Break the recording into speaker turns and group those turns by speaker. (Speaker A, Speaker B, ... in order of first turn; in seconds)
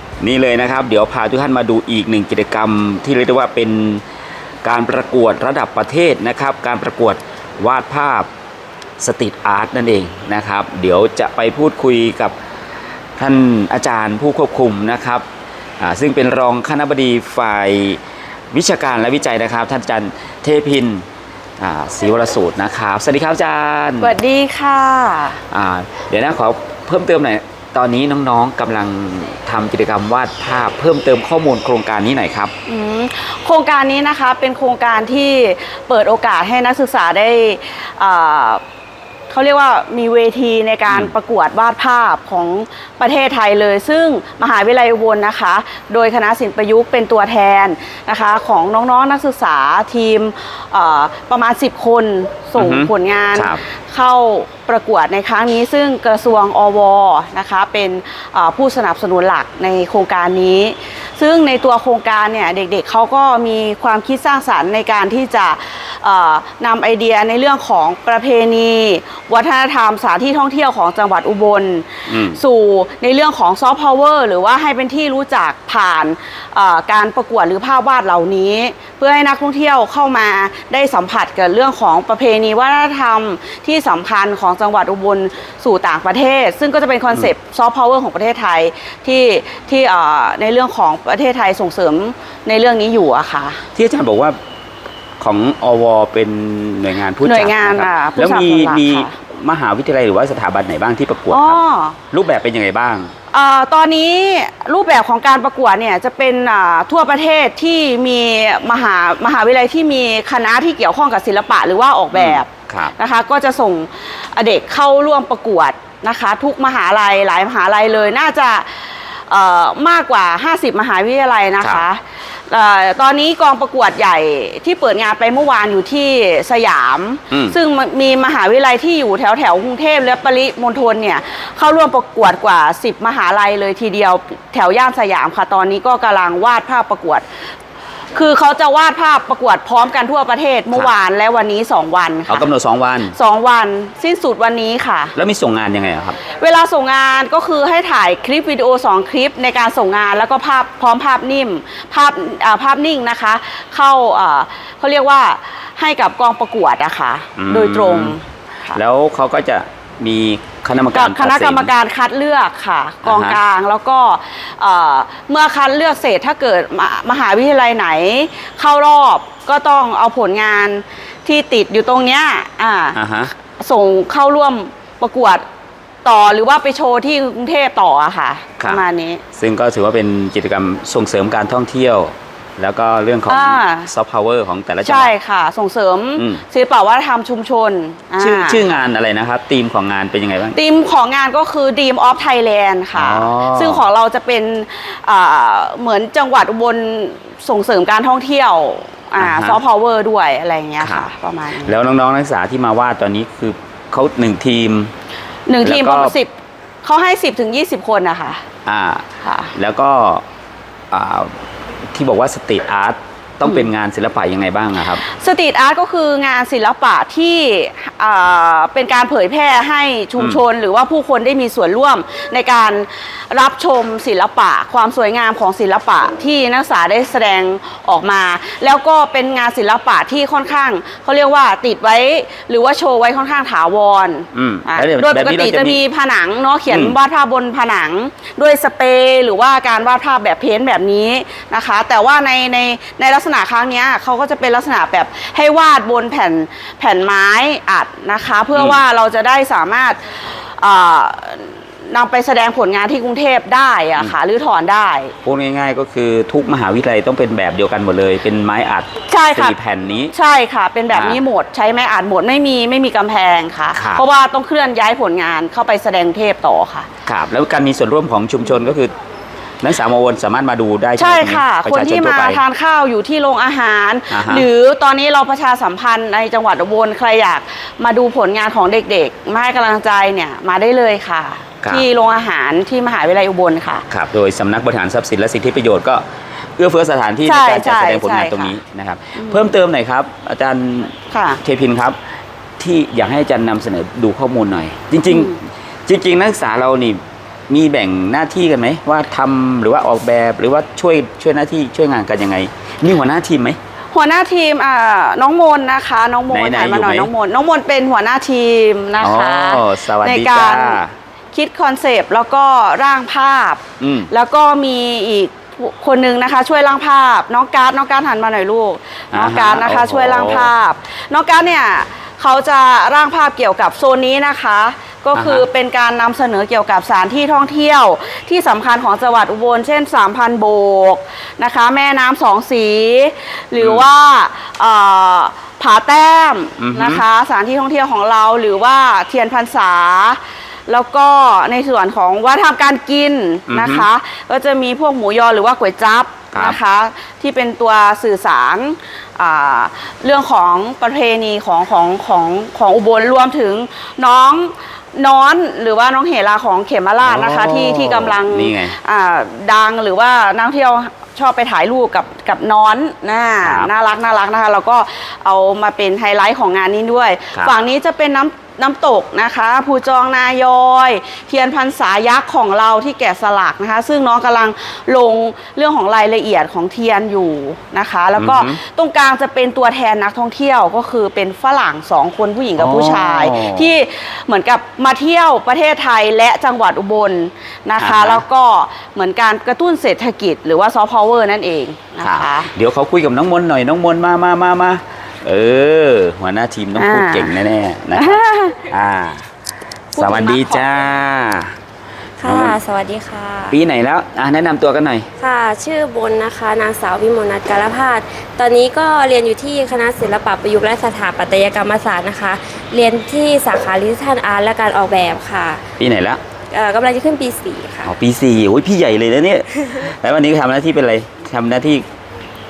Speaker A: 0.2-4.0, 4.6-8.3, 9.0-12.3, 13.2-15.2, 15.8-21.1, 21.6-24.1, 25.5-32.5, 52.6-53.6, 72.1-72.4, 93.8-94.4, 95.2-101.6, 102.1-103.1, 112.1-112.9, 127.3-127.5, 142.3-143.2, 145.1-146.2, 157.4-158.2, 158.7-161.7, 163.0-163.4, 172.9-173.3, 179.3-185.1, 186.2-186.4, 188.2-190.6, 192.9-193.8, 199.2-199.6, 200.8-201.1, 201.6-204.9, 205.6-206.2, 208.7-210.2, 210.9-211.4, 211.9-215.0, 234.3-235.8, 236.7-236.9, 248.5-248.8, 255.2-260.1, 260.9-261.2, 263.7-264.0, 267.1-268.9, 269.6-272.4, 274.1-274.5, 283.9-286.0, 286.6-292.0, 292.6-303.6, 306.3-307.1, 309.0-310.9, 313.8-314.1, 319.1-320.5, 325.1-325.4, 333.6-333.9, 336.6-337.0, 343.5-343.9, 346.3-346.6, 357.0-358.8, 363.4-363.7, 378.2-378.6, 382.6-383.7, 387.8-388.2, 392.0-399.3, 399.9-401.5, 402.2-402.6, 403.5-405.1, 415.8-416.2, 417.8-421.8
Speaker B: 24.0-25.4, 32.7-38.6, 39.3-93.6, 97.2-99.2, 101.3-102.0, 103.3-137.2, 138.1-142.5, 143.1-145.1, 146.3-158.8, 160.9-173.0, 173.6-175.4, 176.0-179.2, 183.3-183.9, 184.8-188.6, 190.5-201.7, 205.4-208.4, 209.2-209.5, 215.0-255.1, 259.1-259.6, 260.1-266.9, 271.0-283.8, 287.2-288.6, 289.2-289.5, 291.1-291.4, 295.1-295.4, 303.9-310.8, 311.3-392.5, 396.8-397.4, 397.9-398.6, 399.9-400.7
Speaker C: 402.2-403.6, 405.2-415.6, 416.5-417.9